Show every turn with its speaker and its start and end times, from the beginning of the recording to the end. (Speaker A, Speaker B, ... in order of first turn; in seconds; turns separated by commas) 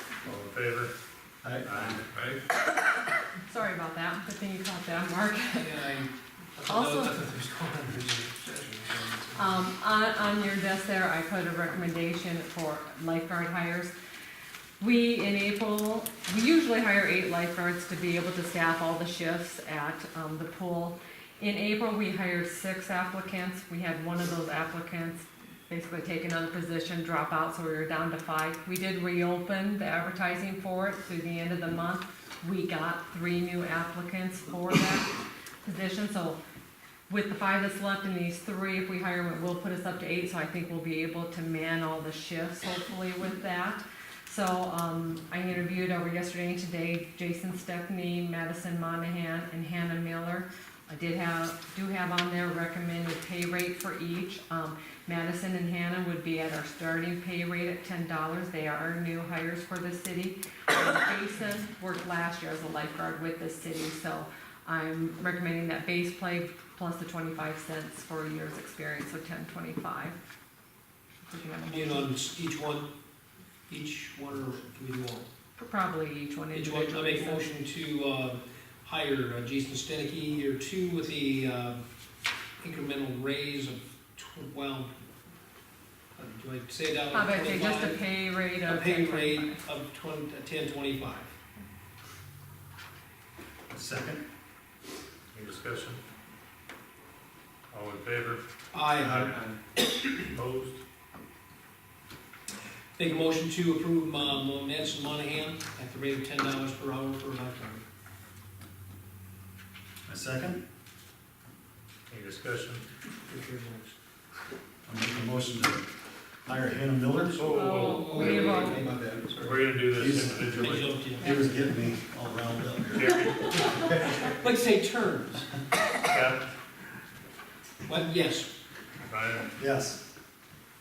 Speaker A: 0.2-0.9, Speaker B: 1.4-2.0, Speaker A: 1.6-2.0, Speaker C: 2.1-2.4, Speaker D: 3.4-5.7, Speaker C: 5.6-9.7, Speaker D: 6.6-7.2, Speaker D: 9.4-13.9, Speaker D: 14.8-36.4, Speaker D: 37.1-70.2, Speaker D: 71.2-72.1, Speaker C: 71.7-72.9, Speaker C: 73.7-75.3, Speaker D: 75.6-77.5, Speaker C: 76.5-81.8, Speaker C: 82.6-85.0, Speaker C: 86.2-91.3, Speaker D: 87.1-89.6, Speaker B: 93.7-94.2, Speaker A: 95.3-96.0, Speaker A: 97.7-98.4, Speaker C: 98.7-100.2, Speaker A: 99.0-99.3, Speaker A: 100.3-100.8, Speaker C: 103.0-107.8, Speaker B: 110.0-110.6, Speaker A: 112.1-112.8, Speaker C: 113.2-113.9, Speaker B: 114.8-115.9, Speaker B: 116.5-117.5, Speaker A: 117.3-118.2, Speaker C: 117.5-121.3, Speaker D: 117.5-118.9, Speaker B: 118.1-124.2, Speaker A: 119.4-120.9, Speaker A: 122.9-123.5, Speaker C: 123.2-125.6, Speaker A: 126.1-126.4, Speaker C: 127.8-128.5, Speaker A: 129.1-129.5, Speaker B: 129.6-130.0